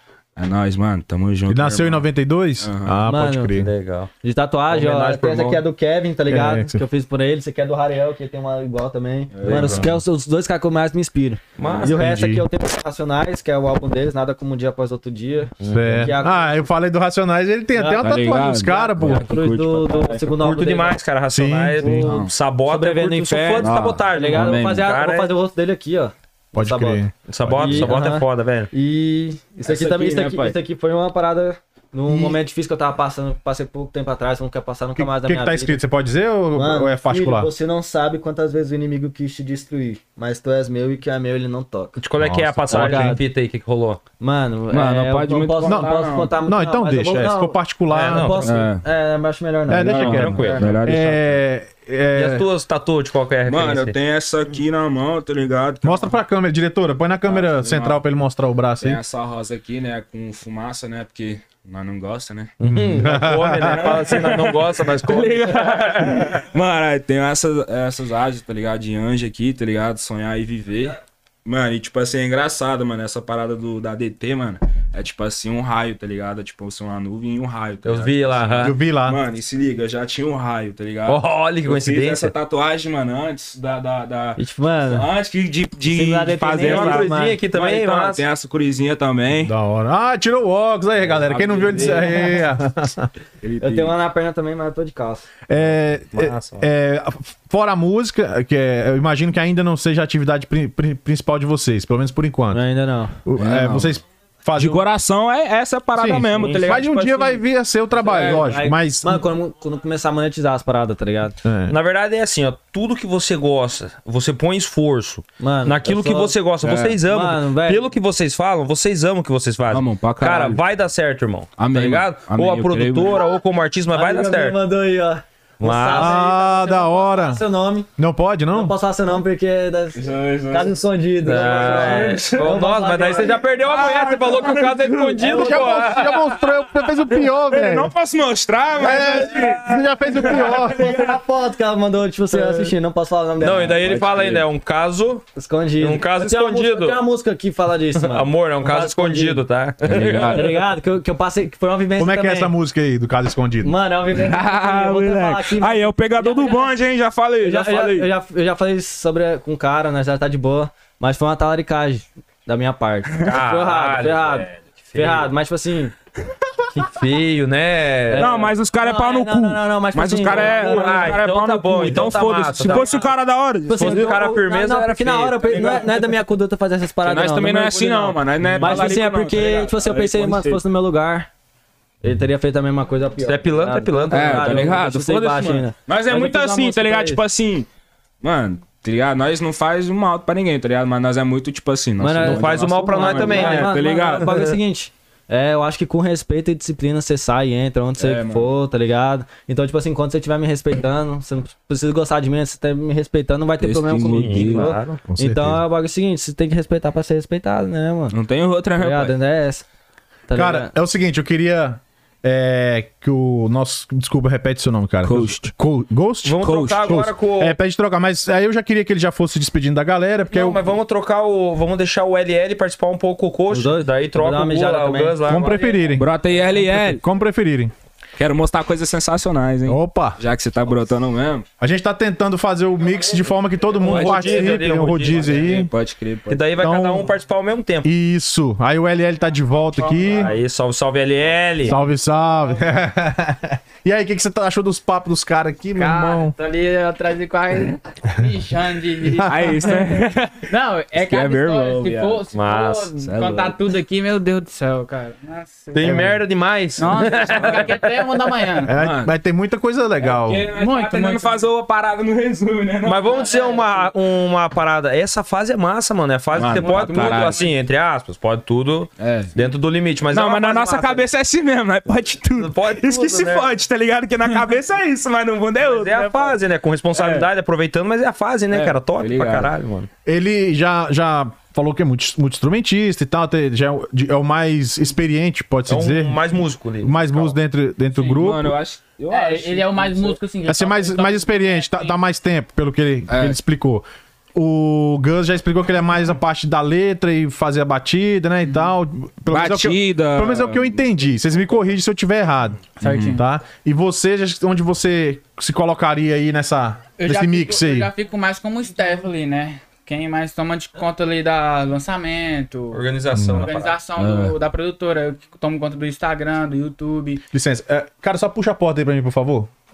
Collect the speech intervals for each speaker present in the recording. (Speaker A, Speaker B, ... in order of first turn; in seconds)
Speaker A: 0.4-2.1, 2.6-3.0, 9.3-9.9, 18.0-20.2, 22.0-22.3, 23.6-24.9, 44.7-46.3, 48.4-48.8, 49.9-51.3, 53.5-56.1, 57.3-58.0, 58.8-62.5, 63.2-89.5, 91.1-92.3, 93.4-94.0, 103.4-104.0, 104.5-107.4, 116.6-117.0, 119.7-120.6, 121.6-123.2, 129.9-130.7, 131.4-132.6, 133.6-140.5, 149.8-150.6, 154.1-158.1, 168.2-174.1, 177.0-180.6, 184.1-187.7, 188.2-194.5, 198.0-198.5, 203.6-204.8, 208.1-209.1, 215.0-215.5, 216.4-216.9, 225.9-227.0, 228.2-231.5, 233.8-236.5, 249.2-252.3, 253.0-253.6, 257.1-257.8, 258.7-259.1, 260.0-263.2, 266.3-267.5, 269.0-269.3, 270.1-276.3, 276.9-277.3, 278.5-279.5, 287.9-290.2, 293.1-293.4, 299.3-300.8, 302.8-303.2, 314.0-314.4
Speaker B: 1.5-3.7, 6.3-6.8, 11.9-12.5, 15.7-19.3, 21.3-22.1, 26.5-28.0, 32.1-32.4, 35.0-37.5, 42.2-43.2, 45.6-48.4, 49.7-52.5, 55.8-59.0, 62.6-64.0, 78.6-79.2, 89.4-93.1, 95.5-102.6, 103.3-104.8, 106.0-109.3, 111.4-111.8, 125.9-127.4, 128.0-128.7, 135.2-137.9, 138.8-140.8, 152.0-153.8, 205.1-205.6, 210.3-220.7, 225.2-227.7, 229.7-230.2, 231.6-235.7, 236.6-237.1, 237.8-240.3, 241.6-246.3, 255.8-256.2, 258.7-260.5, 280.1-288.6, 290.5-307.9, 313.1-313.5, 317.3-319.5
Speaker C: 3.0-3.5, 4.2-16.6, 17.7-21.0, 21.8-35.8, 36.5-42.0, 42.7-43.2, 44.2-50.6, 84.4-85.1, 85.8-87.4, 91.7-92.4, 93.6-95.3, 102.5-103.2, 107.9-111.4, 115.4-116.4, 117.0-117.8, 123.9-127.9, 128.5-133.6, 135.2-135.7, 140.3-144.4, 145.4-149.4, 150.1-152.5, 153.6-156.7, 157.4-165.9, 168.1-171.2, 171.9-173.1, 173.7-181.3, 182.0-187.2, 192.0-208.2, 208.8-209.6, 210.3-210.7, 223.5-225.7
Speaker D: 3.5-4.1, 4.7-5.6, 9.4-9.9, 11.6-12.0, 15.6-16.1, 20.2-25.3, 27.3-28.7, 29.6-30.6, 42.0-44.0, 47.9-48.6, 49.9-50.7, 52.1-54.0, 62.6-66.4, 77.8-78.8, 81.1-82.3, 86.5-88.2, 96.1-96.7, 106.3-106.8, 108.1-108.5, 111.7-124.6, 125.6-126.2, 131.2-136.2, 142.3-142.7, 143.4-145.3, 145.8-147.0, 147.9-150.6, 163.2-165.3, 166.9-168.3, 170.3-173.0, 173.7-176.1, 178.4-178.9, 183.2-184.8, 185.4-185.6, 192.2-194.6, 204.0-205.0, 216.2-217.6, 220.3-225.8, 233.8-235.7, 236.3-237.9, 240.1-241.8, 252.3-252.9, 255.7-258.1, 262.8-271.1, 272.4-273.5, 275.6-279.9, 285.7-287.4, 312.7-313.8
Speaker E: 239.8-240.3, 245.8-256.1, 256.8-258.8, 260.5-261.4, 263.1-263.9, 266.5-267.5, 289.1-292.0, 302.8-303.2, 307.0-317.2